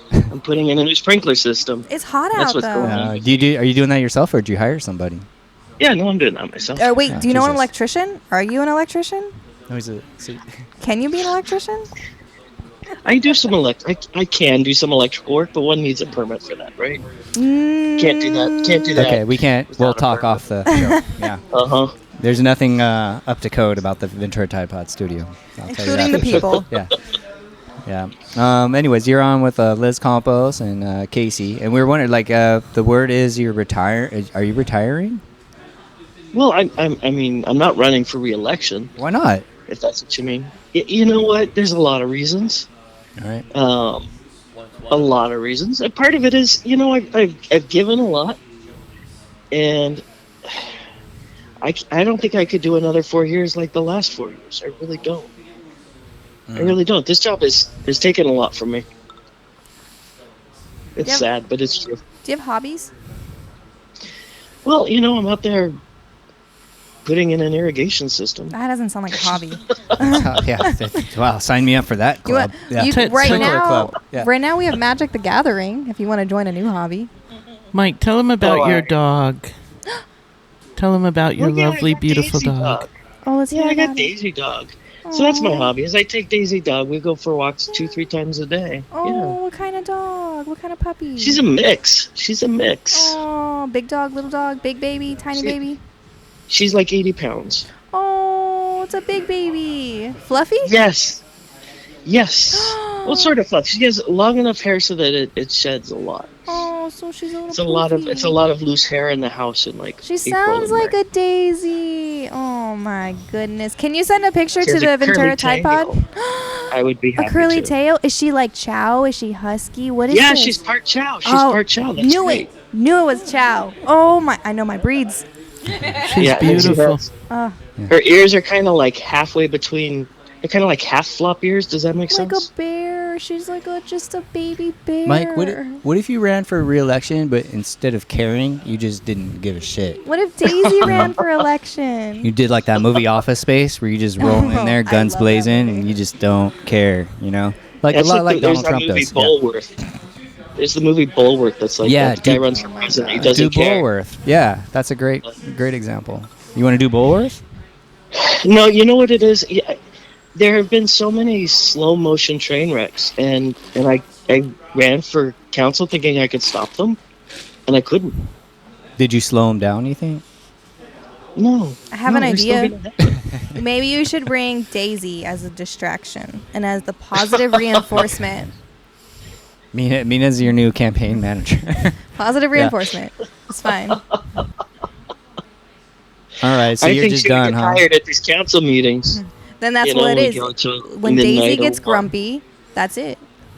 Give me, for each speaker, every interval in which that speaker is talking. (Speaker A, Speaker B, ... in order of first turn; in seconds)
Speaker A: 0.3-3.5, 5.8-7.0, 13.0-17.0, 18.0-20.4, 21.5-21.9, 26.3-26.6, 36.3-38.9, 39.7-42.7, 43.5-44.1, 44.9-48.4, 49.5-50.0, 51.6-55.3, 56.6-58.8, 61.0-62.0, 64.7-65.8, 67.0-68.5, 78.4-78.9, 81.4-82.9, 83.5-89.3, 91.2-93.2, 96.5-97.7, 100.6-101.2, 102.0-106.6, 107.5-110.9, 114.6-116.0, 116.7-117.7, 120.1-122.5, 126.2-127.0, 127.9-132.4, 140.6-141.1, 147.9-149.7, 150.6-153.8, 158.1-159.8, 160.3-167.0, 167.7-168.2, 171.4-173.2, 186.8-189.2, 189.8-192.1
Speaker B: 1.9-3.0, 6.8-9.3, 10.8-11.9, 17.4-18.9, 20.7-21.0, 25.7-26.6, 62.2-62.9, 68.5-70.7, 72.2-77.1, 83.2-84.1, 85.0-85.7, 88.9-91.4, 92.9-95.8, 97.9-100.7, 102.5-103.3, 106.5-108.4, 110.0-120.6, 121.2-125.2, 127.3-127.6, 132.1-135.8, 140.0-142.3, 144.2-145.9, 152.4-153.4, 171.9-172.7, 173.5-178.5, 182.2-184.1, 189.1-193.2
Speaker C: 2.8-5.2, 7.1-7.7, 9.7-10.4, 18.9-21.4, 22.2-26.9, 27.9-35.2, 39.0-39.4, 43.2-43.4, 56.5-56.8, 70.1-74.3, 135.1-140.0, 140.8-141.1, 142.2-149.3, 151.8-152.4, 153.2-157.4, 169.0-170.2, 179.7-181.9, 186.4-187.8
Speaker D: 72.9-73.8, 77.7-79.5, 80.8-82.8, 126.0-127.0